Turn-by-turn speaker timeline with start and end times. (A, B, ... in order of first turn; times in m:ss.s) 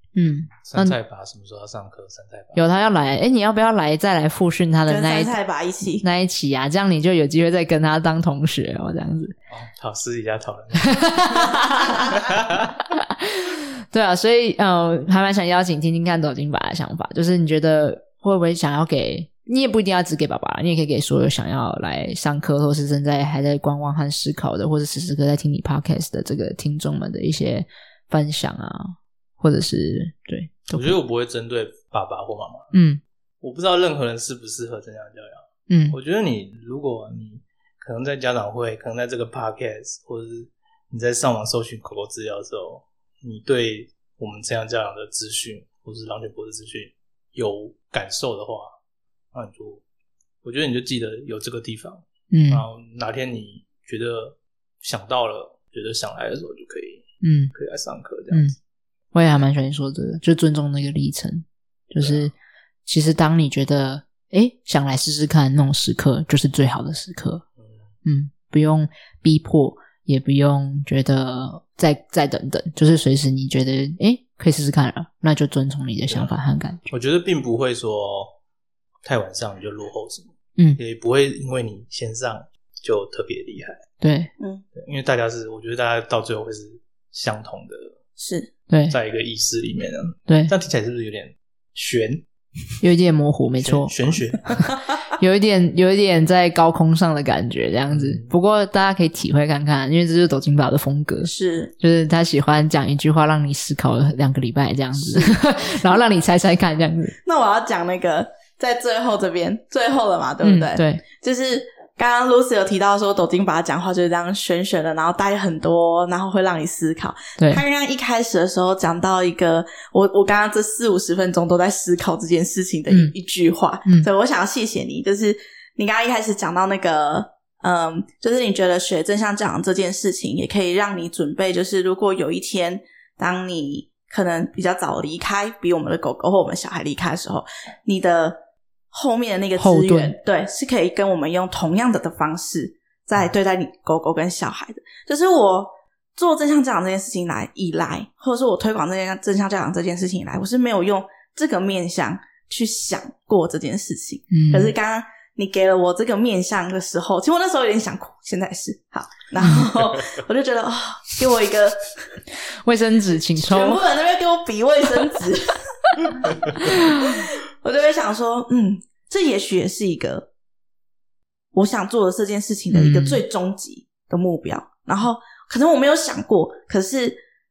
0:00.1-0:01.0 A
0:00.6-0:02.6 B
0:02.6-0:05.3 A
0:04.9-0:06.0 C
0:06.0-0:09.4 A
0:09.5-0:11.2 B
0:10.8-0:12.2 A
0:12.1-0:12.7 B
0:12.9-0:31.0 A
0:30.7-0:32.7 B
0:32.7-0:33.0 A
0:33.4-0:48.7 B
0:35.7-0:36.0 A
0:49.3-0:49.8 B
0:50.4-0:58.5 B
0:52.3-0:52.6 A
0:57.2-0:57.5 A
0:59.1-1:02.3 A
1:02.0-1:02.3 B
1:02.8-1:07.4 A
1:08.0-1:16.8 A
1:16.1-1:16.3 B
1:16.9-1:18.3 B
1:19.0-1:23.8 B
1:24.0-1:24.3 A
1:24.4-1:24.6 C
1:24.7-1:28.0 B
1:28.2-1:28.5 C
1:28.7-1:29.0 A
1:28.9-1:32.2 B
1:30.3-1:30.5 A
1:32.8-1:33.9 A
1:33.6-1:34.5 B
1:35.2-1:47.2 A
1:37.9-1:38.3 B
1:41.2-1:41.7 C
1:47.2-2:18.4 C
1:50.4-1:51.0 A
1:57.4-1:57.6 A
2:18.9-2:41.8 C
2:19.6-2:20.1 A
2:34.3-2:34.7 A
2:39.4-2:39.6 A
2:42.6-2:43.8 A
2:43.4-2:45.6 C
2:47.0-2:50.3 C
2:51.5-2:57.2 C
2:52.7-2:53.2 A